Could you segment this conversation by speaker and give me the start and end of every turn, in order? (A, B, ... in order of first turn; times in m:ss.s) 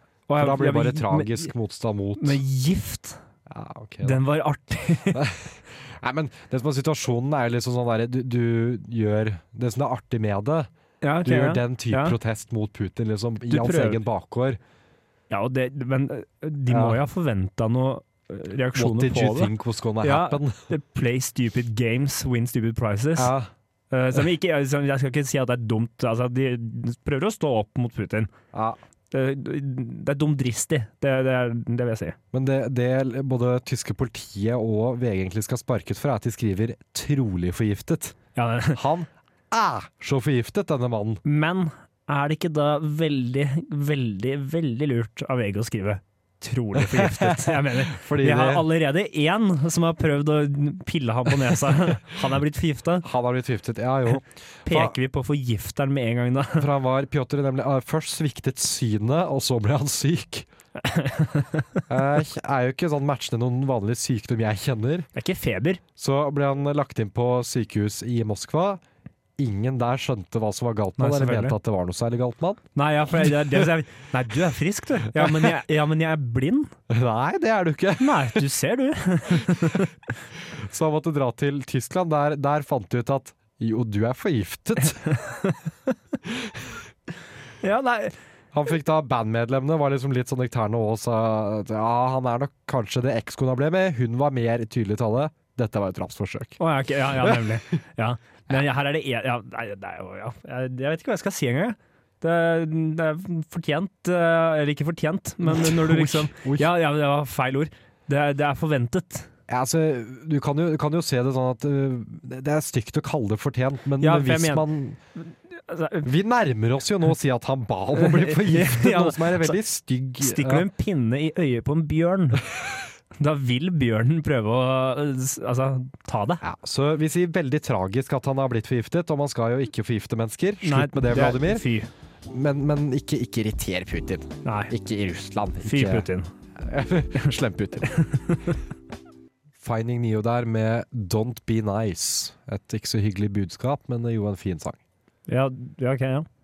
0:00.3-0:01.5 A
0:00.4-0:02.4 B
0:02.2-0:03.2 A
0:03.5-0:04.2 B
0:04.0-0:05.3 A
0:05.1-0:10.7 B
0:11.0-0:12.2 A
0:11.2-0:14.6 B
0:13.5-0:14.0 A
0:15.3-0:23.3 A
0:16.7-0:17.0 B
0:18.8-0:20.7 B
0:23.2-0:23.5 B
0:23.9-0:28.3 A
0:28.5-0:28.8 B
0:29.1-0:32.2 A
0:32.3-0:38.2 B
0:38.4-0:38.8 A
0:38.7-0:41.2 B
0:41.2-0:53.1 A
0:46.8-0:48.7 B
0:53.0-0:55.0 B
0:54.7-0:56.7 A
0:56.6-1:00.5 B
1:00.8-1:01.8 A
1:01.9-1:05.1 B
1:05.2-1:05.8 A
1:06.0-1:08.8 B
1:09.4-1:12.6 B
1:11.0-1:11.6 A
1:12.8-1:16.7 A
1:15.2-1:15.6 B
1:16.9-1:18.4 B
1:18.0-1:19.9 A
1:19.5-1:19.8 B
1:20.4-1:25.0 B
1:25.1-1:25.6 A
1:26.3-1:26.8 B
1:27.6-1:28.2 A
1:28.5-1:36.6 B
1:36.6-1:49.3 A
1:37.2-1:37.6 B
1:45.4-1:46.7 B
1:49.5-1:55.0 B
1:54.0-1:54.7 A
1:55.2-1:56.1 A
1:56.0-2:00.7 B
1:58.0-1:59.6 A
2:00.2-2:02.5 A
2:03.2-2:06.4 A
2:06.4-2:11.6 B
2:10.6-2:11.9 A
2:12.3-2:16.1 B
2:14.4-2:14.7 A
2:15.6-2:16.3 A
2:16.6-2:18.0 B
2:17.9-2:18.6 A
2:19.6-2:24.8 B
2:25.3-2:26.3 A